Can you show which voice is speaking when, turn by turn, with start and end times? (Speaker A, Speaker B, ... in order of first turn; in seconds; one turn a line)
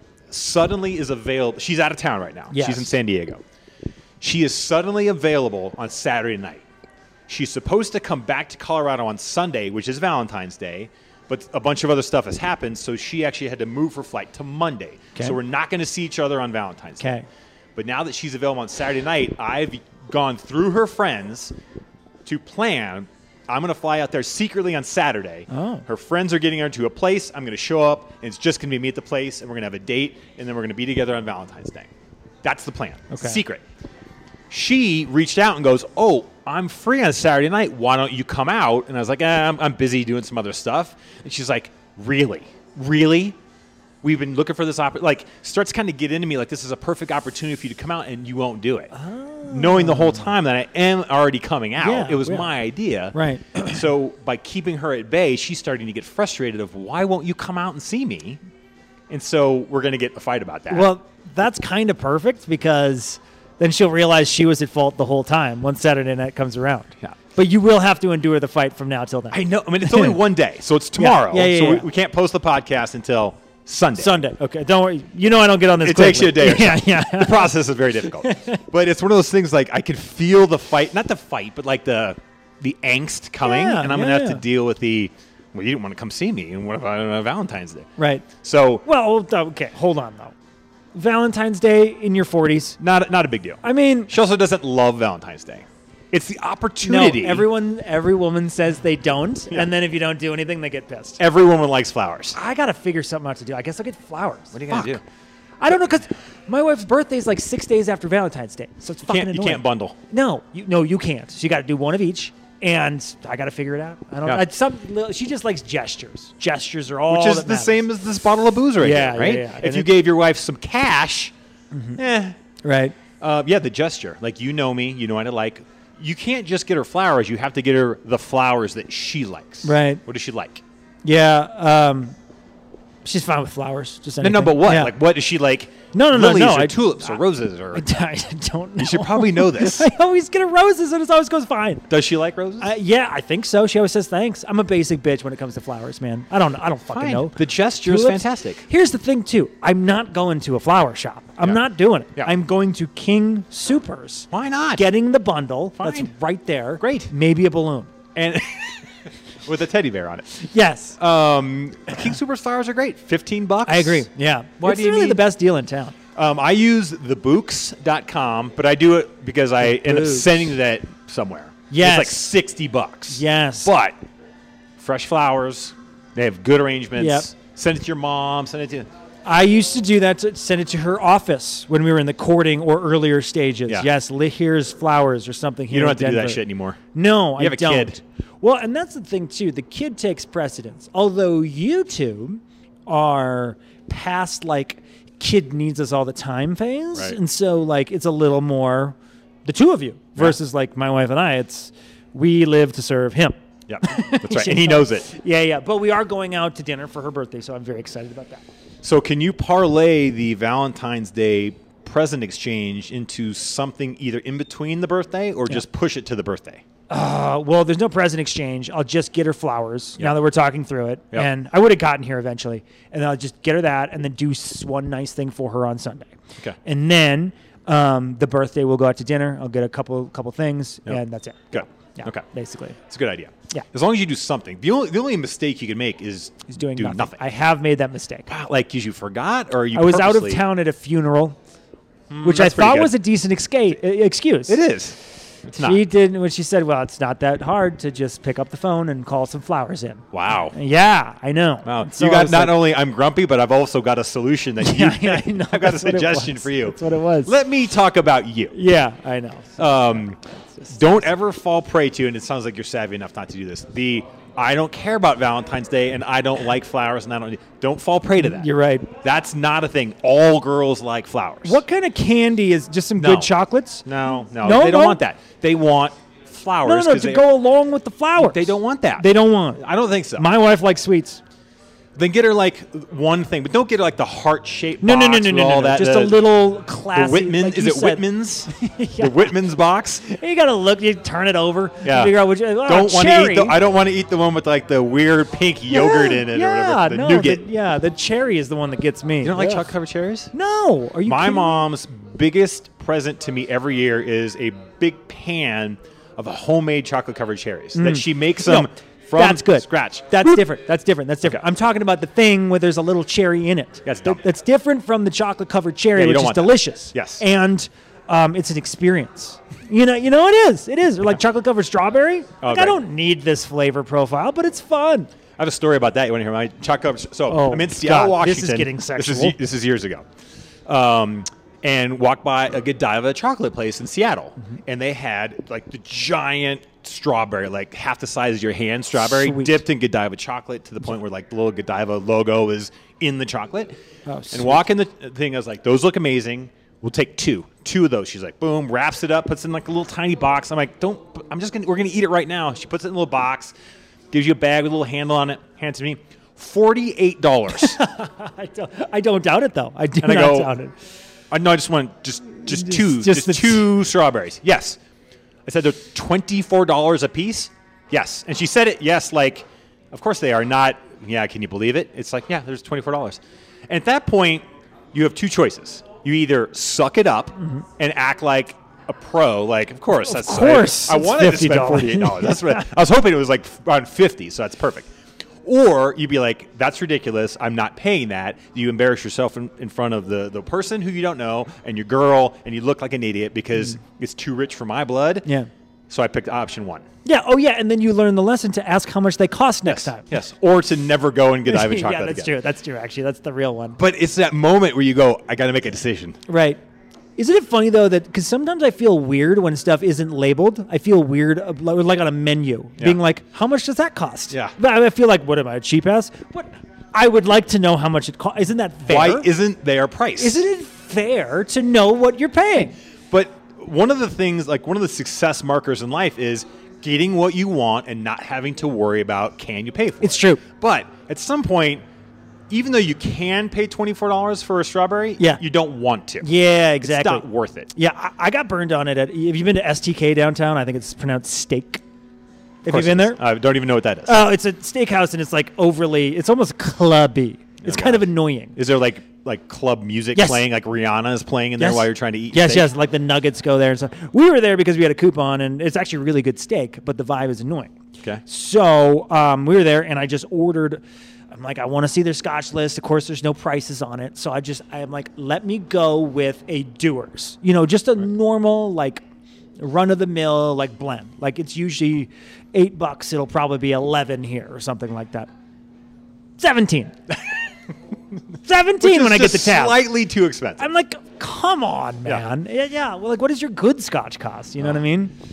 Speaker A: 0.3-3.4
Speaker B: 2.5-2.9
Speaker A: 4.2-6.6
Speaker A: 7.3-17.1
Speaker B: 17.0-17.3
Speaker A: 17.8-21.5
Speaker A: 22.2-31.9
Speaker B: 25.5-25.8
Speaker A: 32.4-33.6
Speaker B: 33.1-33.4
Speaker A: 34.5-43.4
Speaker A: 44.0-48.9
Speaker B: 48.9-50.3
Speaker A: 49.5-58.4
Speaker B: 51.8-52.5
Speaker B: 53.1-53.8
Speaker A: 59.1-60.9
Speaker B: 60.7-70.2
Speaker A: 69.3-74.2
Speaker B: 71.0-71.9
Speaker B: 74.0-77.5
Speaker A: 75.8-88.8
Speaker B: 78.2-78.6
Speaker B: 83.4-84.4
Speaker B: 88.0-88.2
Speaker B: 88.8-90.3
Speaker B: 90.9-92.8
Speaker A: 92.8-97.5
Speaker B: 93.6-94.1
Speaker B: 96.8-101.2
Speaker A: 101.2-102.3
Speaker B: 102.3-105.0
Speaker A: 104.5-105.0
Speaker B: 105.6-117.9
Speaker A: 109.0-110.0
Speaker A: 117.1-121.3
Speaker B: 118.8-119.9
Speaker B: 121.7-122.0
Speaker A: 122.0-122.4
Speaker B: 122.6-123.0
Speaker A: 123.2-130.6
Speaker B: 129.6-130.0
Speaker B: 131.0-132.2
Speaker B: 133.0-134.9
Speaker A: 134.2-137.9
Speaker B: 135.9-137.2
Speaker B: 137.7-141.9
Speaker A: 138.8-139.9
Speaker A: 141.9-142.7
Speaker B: 142.6-157.9
Speaker A: 146.9-148.6
Speaker A: 154.3-154.8
Speaker A: 155.8-156.1
Speaker A: 156.8-157.1
Speaker A: 158.1-160.4
Speaker B: 160.4-161.0
Speaker A: 161.0-164.1
Speaker B: 163.7-165.9
Speaker A: 164.6-165.2
Speaker A: 166.1-173.9
Speaker B: 169.6-170.5
Speaker B: 171.7-172.2
Speaker B: 173.1-173.7
Speaker A: 174.8-178.9
Speaker B: 177.0-177.3
Speaker B: 179.2-186.4
Speaker A: 185.7-186.8
Speaker B: 186.9-208.4
Speaker A: 187.4-187.9
Speaker A: 203.7-205.1
Speaker A: 208.8-216.6
Speaker B: 216.9-232.8
Speaker A: 231.5-232.2
Speaker A: 232.8-237.2
Speaker B: 236.5-238.3
Speaker A: 238.3-240.4
Speaker B: 239.7-241.4
Speaker A: 242.1-242.9
Speaker B: 242.2-244.6
Speaker A: 244.5-245.8
Speaker B: 245.6-252.6
Speaker A: 250.1-250.5
Speaker A: 251.6-258.5
Speaker B: 254.6-257.3
Speaker B: 258.5-261.0
Speaker A: 259.6-260.2
Speaker A: 260.7-268.5
Speaker B: 268.2-268.9
Speaker A: 269.0-271.6
Speaker B: 271.4-273.9
Speaker A: 273.0-273.3
Speaker A: 273.8-277.2
Speaker B: 274.4-275.0
Speaker B: 276.6-279.6
Speaker A: 278.2-280.3
Speaker B: 280.1-281.2
Speaker A: 281.9-286.2
Speaker B: 284.8-289.4
Speaker A: 286.9-290.1
Speaker B: 290.0-293.6
Speaker A: 291.8-297.4
Speaker B: 295.7-299.7
Speaker A: 299.2-300.3
Speaker B: 300.3-301.6
Speaker A: 301.0-310.4
Speaker B: 307.8-325.1
Speaker A: 313.8-314.2
Speaker A: 315.9-317.2
Speaker A: 322.4-322.8
Speaker A: 325.4-330.0
Speaker B: 327.3-329.4
Speaker A: 330.6-343.7
Speaker B: 339.0-339.6
Speaker B: 344.1-344.6
Speaker A: 344.3-353.5
Speaker A: 354.1-357.8
Speaker B: 357.5-360.7
Speaker A: 360.0-360.5
Speaker A: 361.3-364.8
Speaker B: 362.4-363.7
Speaker A: 365.4-384.9
Speaker B: 380.0-382.7
Speaker A: 385.4-395.2
Speaker B: 395.2-395.5
Speaker A: 395.9-396.8
Speaker B: 397.0-400.1
Speaker A: 399.6-402.3
Speaker B: 401.4-403.8
Speaker A: 403.8-406.2
Speaker B: 406.3-406.6
Speaker B: 407.2-419.3
Speaker A: 418.9-420.4
Speaker B: 420.2-422.7
Speaker A: 423.1-431.8
Speaker B: 430.0-430.4
Speaker A: 432.5-436.3
Speaker B: 436.2-441.8
Speaker A: 436.8-437.7
Speaker B: 442.6-443.2
Speaker A: 442.7-444.2
Speaker B: 444.1-448.6
Speaker A: 447.6-452.7
Speaker B: 450.1-450.4
Speaker B: 451.6-457.7
Speaker B: 458.2-469.0
Speaker B: 469.6-475.3
Speaker B: 476.4-477.0
Speaker B: 478.4-479.8
Speaker A: 478.8-480.7
Speaker B: 480.6-485.1